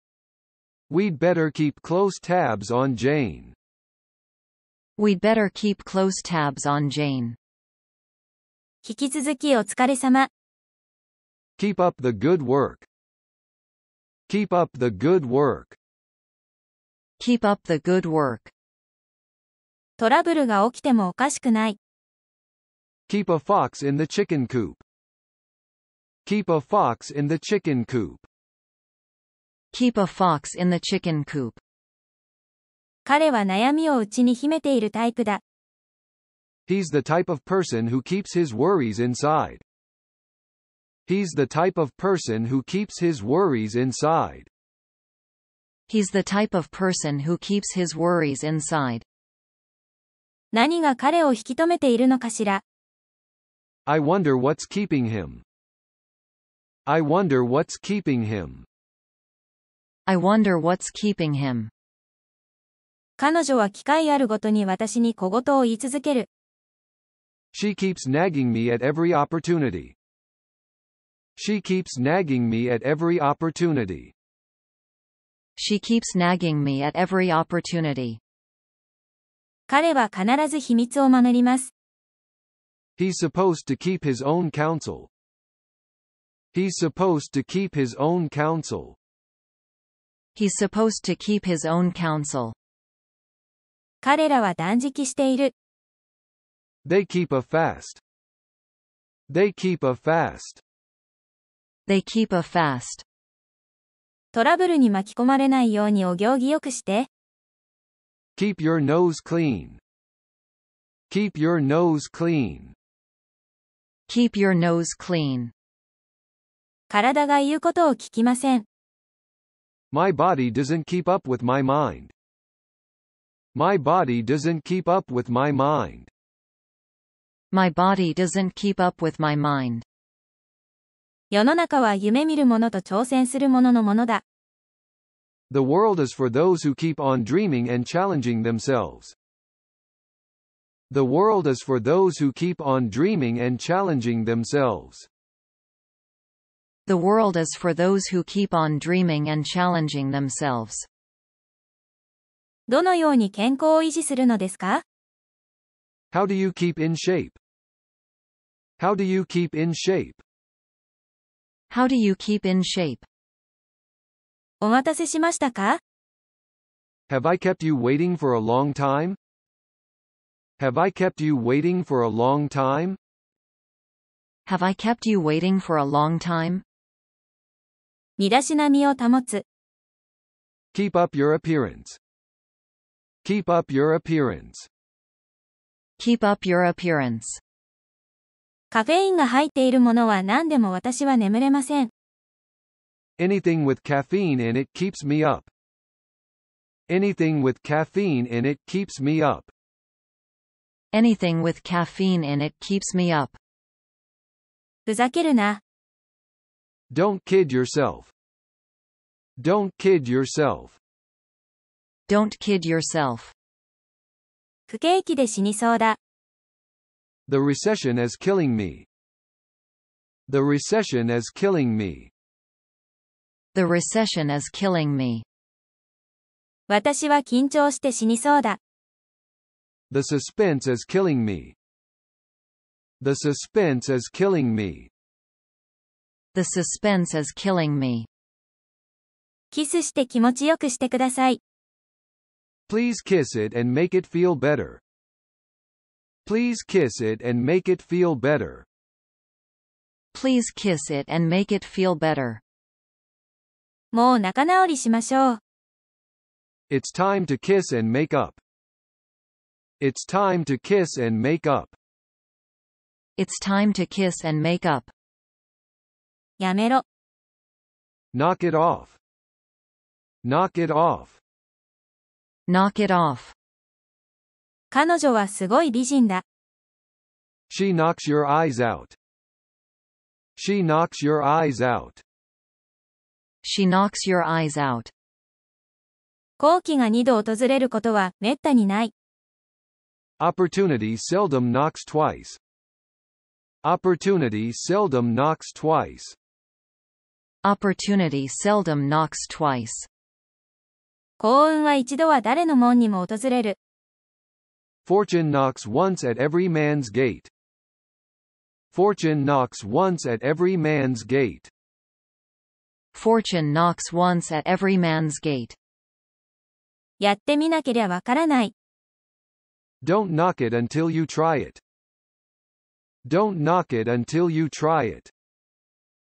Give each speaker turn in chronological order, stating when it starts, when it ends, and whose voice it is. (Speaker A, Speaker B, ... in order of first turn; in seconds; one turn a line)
Speaker A: 0.9-3.5
Speaker B: 5.0-7.4
Speaker C: 8.8-10.3
Speaker A: 11.6-12.9
Speaker A: 14.3-15.8
Speaker B: 17.2-18.5
Speaker C: 20.0-21.8
Speaker A: 23.1-24.8
Speaker A: 26.2-28.2
Speaker B: 29.7-31.6
Speaker C: 33.0-35.4
Speaker A: 36.7-39.6
Speaker A: 41.0-44.5
Speaker B: 45.9-49.0
Speaker C: 50.5-52.6
Speaker A: 53.9-55.4
Speaker A: 56.9-58.6
Speaker B: 60.1-61.7
Speaker C: 63.2-66.3
Speaker A: 67.5-70.0
Speaker A: 71.3-74.1
Speaker B: 75.6-78.2
Speaker C: 79.7-81.7
Speaker A: 83.0-85.1
Speaker A: 86.5-89.0
Speaker B: 90.3-92.5
Speaker C: 94.0-95.5
Speaker A: 96.8-98.0
Speaker A: 99.3-100.6
Speaker B: 101.9-103.0
Speaker C: 104.3-107.1
Speaker A: 108.3-109.8
Speaker A: 111.1-112.7
Speaker B: 114.1-115.5
Speaker C: 116.9-118.6
Speaker A: 119.9-122.1
Speaker A: 123.5-126.1
Speaker B: 127.5-129.8
Speaker C: 131.3-134.2
Speaker A: 135.5-139.1
Speaker A: 140.9-145.1
Speaker B: 146.8-150.9
Speaker C: 152.7-154.8
Speaker A: 156.1-157.4
Speaker A: 158.8-160.2
Speaker B: 161.7-163.1
Speaker C: 164.6-165.8
Speaker A: 167.1-169.2
Speaker A: 170.6-173.0
Speaker B: 174.4-176.6
Speaker C: 178.2-179.4
Speaker A: 180.7-182.0
Speaker A: 183.2-184.7
Speaker B: 186.0-187.4
Speaker C: 188.7-191.9
Speaker A: 193.2-195.5
Speaker A: 196.9-199.5
Speaker B: 200.9-203.4
Speaker C: 204.8-205.6
Speaker A: 206.9-208.1
Speaker A: 209.4-210.8
Speaker B: 212.1-213.3
Speaker C: 214.7-216.0
Speaker A: 217.3-218.9
Speaker A: 220.3-222.1
Speaker B: 223.5-225.2
Speaker C: 226.7-228.6
Speaker A: 229.9-231.6
Speaker A: 233.0-234.9
Speaker B: 236.3-238.1
Speaker C: 239.5-241.4
Speaker A: 242.7-244.8
Speaker A: 246.2-248.7
Speaker B: 250.1-252.4
Speaker C: 253.9-255.4
Speaker A: 256.7-258.4
Speaker A: 259.8-261.8
Speaker B: 263.2-264.9
Speaker C: 266.4-266.8
Speaker A: 268.1-269.0
Speaker A: 270.2-271.2
Speaker B: 272.5-273.3
Speaker C: 274.7-276.2
Speaker A: 277.5-278.9
Speaker A: 280.4-282.0
Speaker B: 283.4-284.9
Speaker C: 286.4-288.9
Speaker A: 290.2-292.4
Speaker A: 293.6-296.1
Speaker B: 297.4-299.9
Speaker C: 301.2-303.6
Speaker A: 304.9-307.3
Speaker A: 308.7-311.5
Speaker B: 312.9-315.6
Speaker C: 317.0-318.5
Speaker A: 319.8-321.6
Speaker A: 323.0-325.1